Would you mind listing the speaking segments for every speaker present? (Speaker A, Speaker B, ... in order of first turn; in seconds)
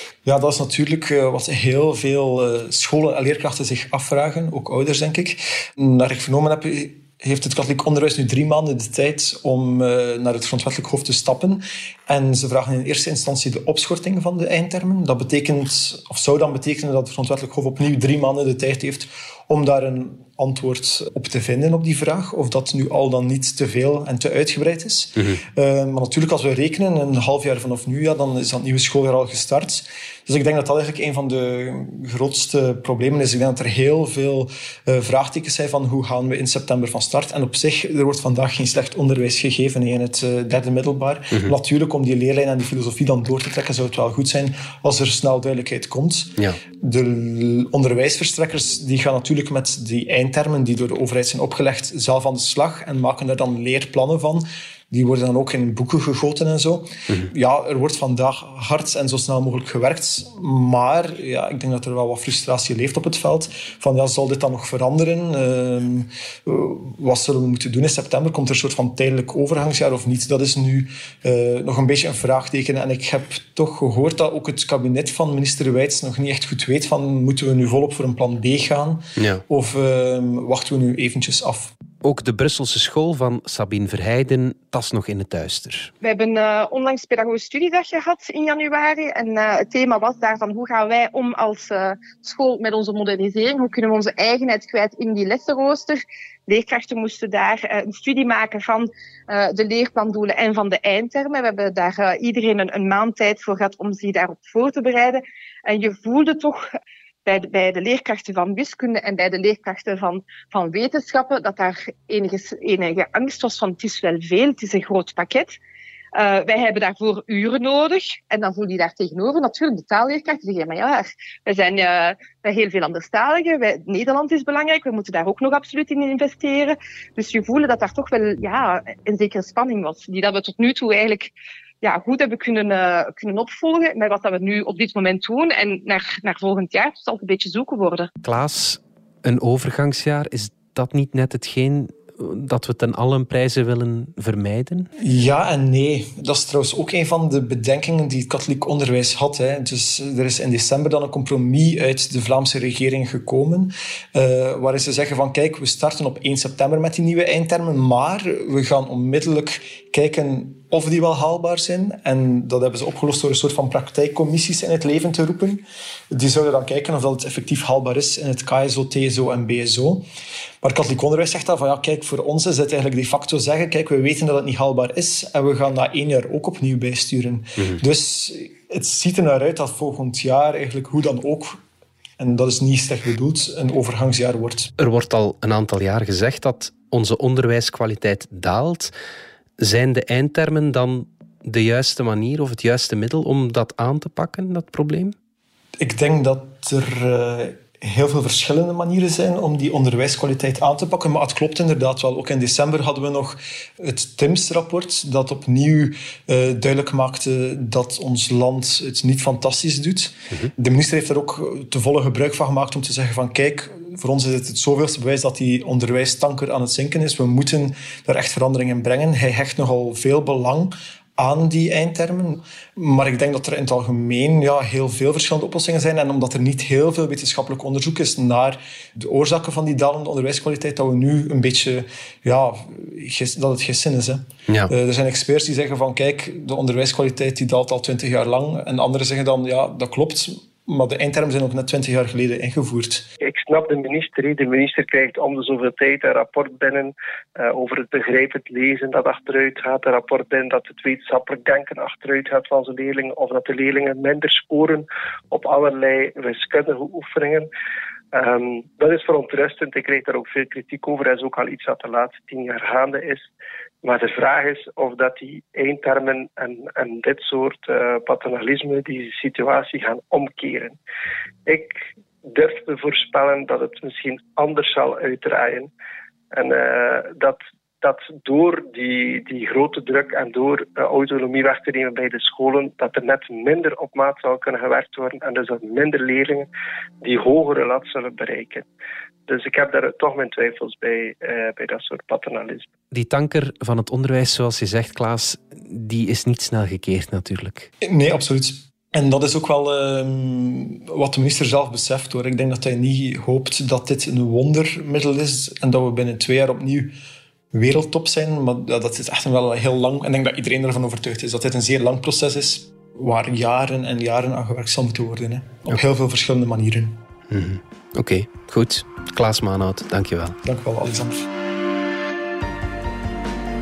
Speaker A: 0.2-81.7, 145.0-170.1, 170.6-181.6, 182.2-184.7, 195.8-243.1, 297.8-306.9, 307.5-317.0, 320.4-321.3
Speaker B: 79.2-79.4, 82.0-85.9, 138.2-144.9, 184.8-188.9, 189.6-195.1, 292.9-297.7, 317.3-320.4
Speaker C: 86.0-106.6, 107.3-115.6, 116.2-138.1
Speaker D: 243.2-257.5, 258.1-263.3, 263.8-270.8, 271.5-275.7, 276.3-286.5, 287.0-288.6, 289.3-292.7